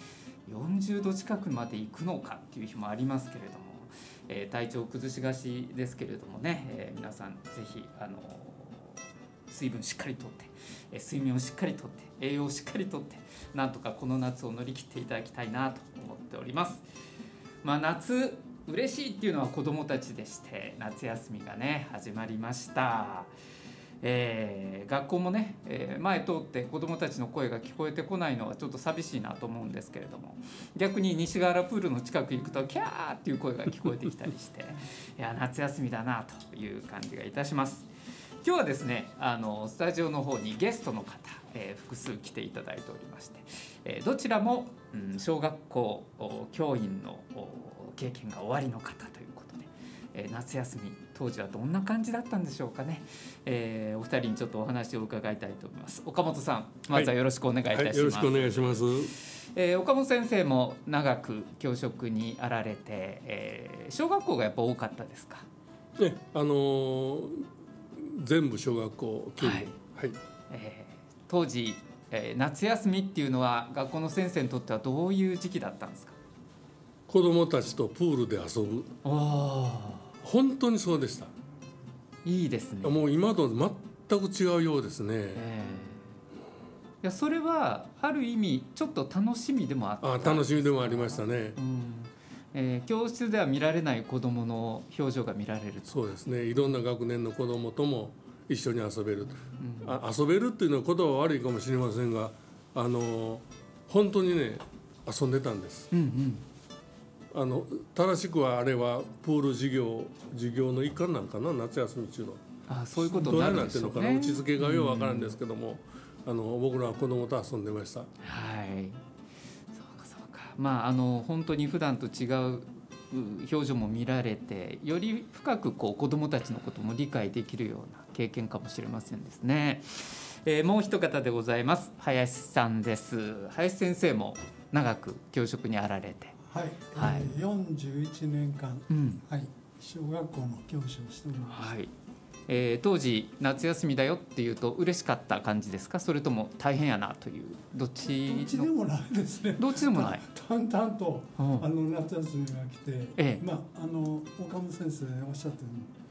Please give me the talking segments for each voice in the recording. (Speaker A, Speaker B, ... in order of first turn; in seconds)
Speaker A: 0.5-16.9, 17.6-23.3, 24.0-37.9, 38.4-65.5, 69.4-69.7, 70.5-76.2, 79.0-80.1, 82.2-83.0, 85.3-86.1, 87.0-95.9, 99.6-100.0, 105.9-106.4, 112.7-115.3, 118.2-119.0, 119.7-136.3, 136.9-137.3, 138.9-139.2, 141.5-141.9, 142.5-148.7, 149.6-150.2, 151.4-151.7, 153.2-153.4
Speaker B: 57.7-59.1, 66.0-70.2, 77.1-78.9, 80.2-81.3, 82.8-85.5, 90.0-91.6, 95.9-105.9, 107.3-112.4, 113.0-118.1
Speaker C: 136.4-141.8, 148.3-155.9